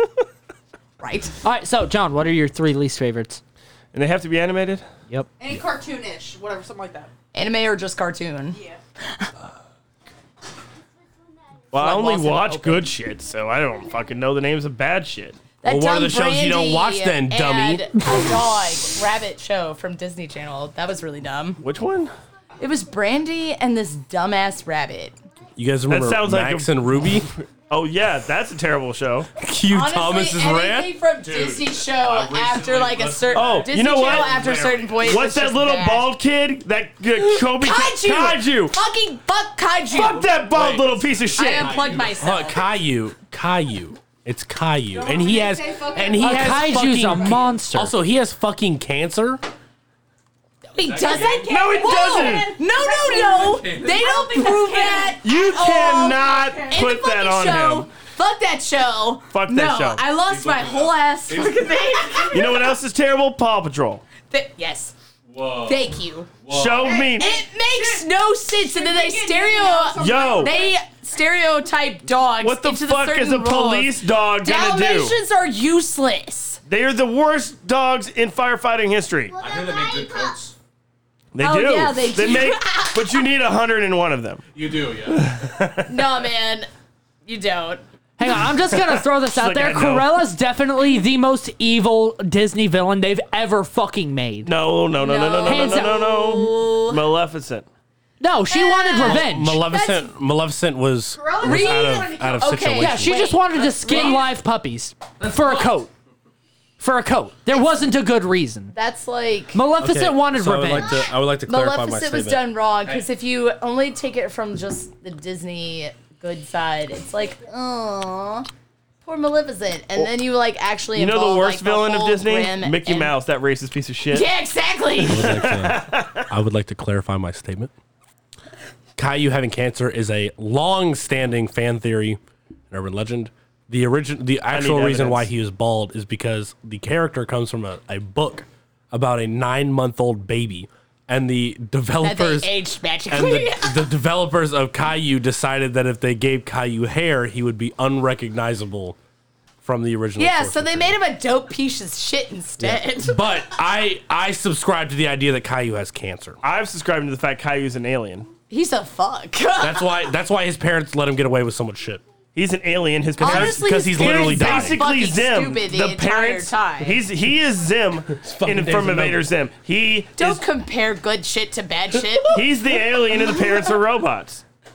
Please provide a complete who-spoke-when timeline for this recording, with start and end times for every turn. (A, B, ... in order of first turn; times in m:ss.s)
0:01.0-0:01.3 A
0:01.4-0:03.4 B
0:03.9-0:04.8 C
0:05.4-0:07.1 D
0:07.3-0:09.3 A
0:08.5-0:08.8 D
0:11.7-0:15.4 C
0:11.8-0:12.8 B
0:15.6-0:21.6 A
0:15.6-0:17.9 E
0:21.6-0:22.1 C
0:22.6-0:25.2 A
0:25.6-0:27.3 E
0:25.9-0:26.7 C
0:27.7-0:29.3 C
0:29.4-0:31.0 E
0:29.7-0:36.1 A
0:31.2-0:35.1 F
0:33.3-0:34.4 C
0:35.0-0:38.8 C
0:37.2-0:40.3 A
0:40.0-0:41.9 C
0:40.5-0:40.8 E
0:41.0-0:42.3 F
0:41.3-0:42.6 A
0:42.2-0:49.4 E
0:44.9-0:47.5 D
0:46.2-0:47.9 B
0:50.7-1:02.7 A
0:50.8-0:51.8 F
0:51.3-0:52.5 C
0:51.8-0:56.8 D
0:53.2-0:54.4 F
0:55.2-0:57.9 C
0:59.3-1:00.0 C
1:00.2-1:02.1 F
1:02.3-1:04.0 C
1:04.3-1:04.9 A
1:05.3-1:05.9 F
1:05.6-1:06.3 A
1:06.4-1:07.1 F
1:06.5-1:07.4 C
1:06.8-1:10.7 D
1:07.2-1:16.6 A
1:10.0-1:10.5 C
1:12.4-1:15.1 C
1:16.6-1:19.3 C
1:19.4-1:20.5 F
1:19.4-1:20.2 D
1:21.3-1:24.4 C
1:21.4-1:23.2 A
1:24.5-1:25.3 F
1:25.1-1:26.0 C
1:25.9-1:26.7 A
1:27.2-1:27.8 A
1:28.2-1:34.5 B
1:28.9-1:30.1 C
1:34.4-1:37.6 C
1:35.0-1:37.0 A
1:35.4-1:36.1 B
1:38.2-1:39.6 B
1:38.5-1:39.2 A
1:38.5-1:39.0 D
1:39.0-1:43.2 E
1:39.7-1:40.0 D
1:41.2-1:42.7 D
1:41.4-1:44.3 A
1:42.8-1:45.9 B
1:46.8-1:48.7 B
1:48.7-1:49.6 A
1:49.5-1:51.1 B
1:49.8-1:52.4 E
1:51.5-1:58.5 A
1:59.0-2:03.1 A
2:00.9-2:04.3 C
2:04.1-2:05.4 A
2:05.1-2:07.7 E
2:05.1-2:06.3 C
2:09.0-2:12.2 E
2:12.7-2:22.5 E
2:14.5-2:15.3 C
2:22.0-2:23.9 A
2:23.1-2:29.0 E
2:29.6-2:31.0 E
2:30.2-2:33.2 A
2:32.6-2:36.4 E
2:36.4-2:38.3 C
2:38.5-2:40.0 A
2:39.6-2:42.0 E
2:42.3-2:50.4 C
2:43.2-2:44.8 E
2:43.2-2:47.0 A
2:48.2-2:49.3 E
2:50.2-2:52.4 A
2:52.3-2:54.4 C